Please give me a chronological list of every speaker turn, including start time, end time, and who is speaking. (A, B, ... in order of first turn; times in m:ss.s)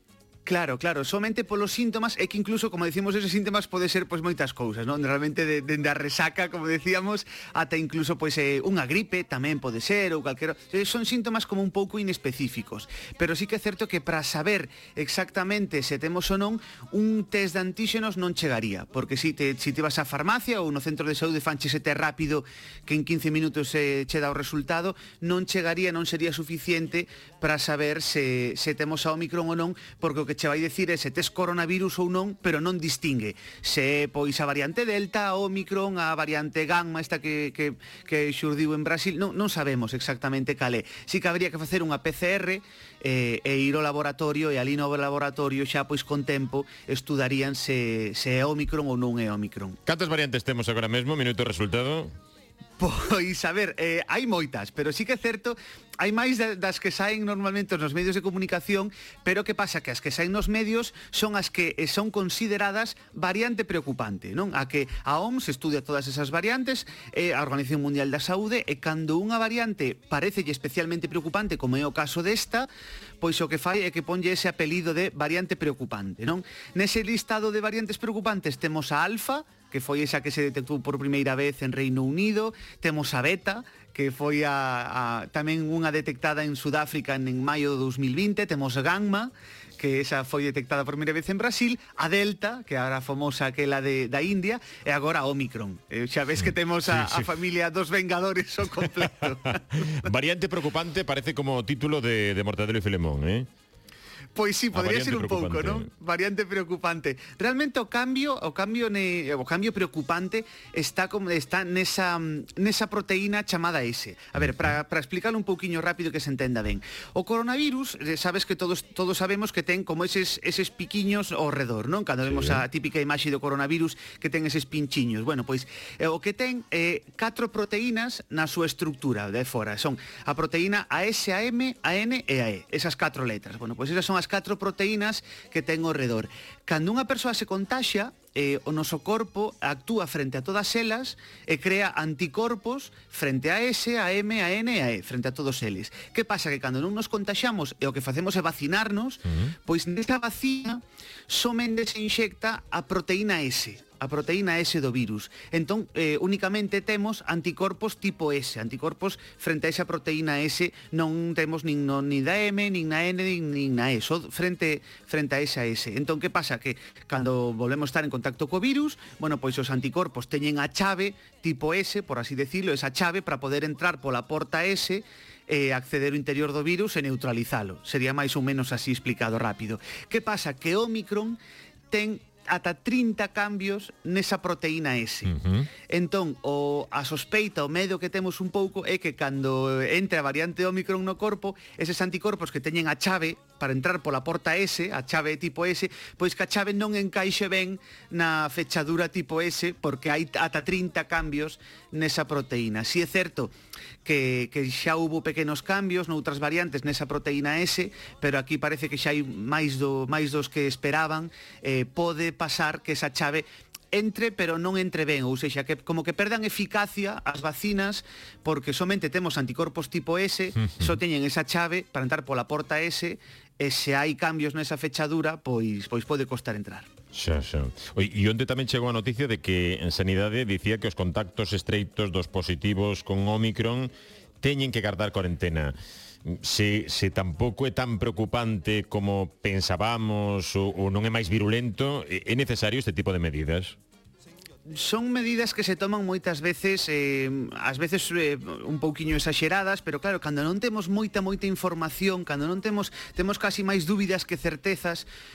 0:00.5-0:49.8 A
0:49.9-0:52.1 B
0:52.8-1:12.7 A
1:13.2-1:40.1 A
1:36.9-1:37.3 B
1:39.7-1:43.5 B
1:44.4-3:01.4 A
1:44.7-1:45.9 B
1:54.4-1:54.7 B
2:02.2-2:02.6 B
2:29.3-2:29.5 B
3:01.9-3:05.3 A
3:05.3-3:05.7 B
3:05.9-3:23.5 A
3:24.0-3:46.9 A
3:40.6-3:41.0 B
3:47.1-3:53.9 B
3:54.4-4:03.8 B
4:04.7-4:15.1 A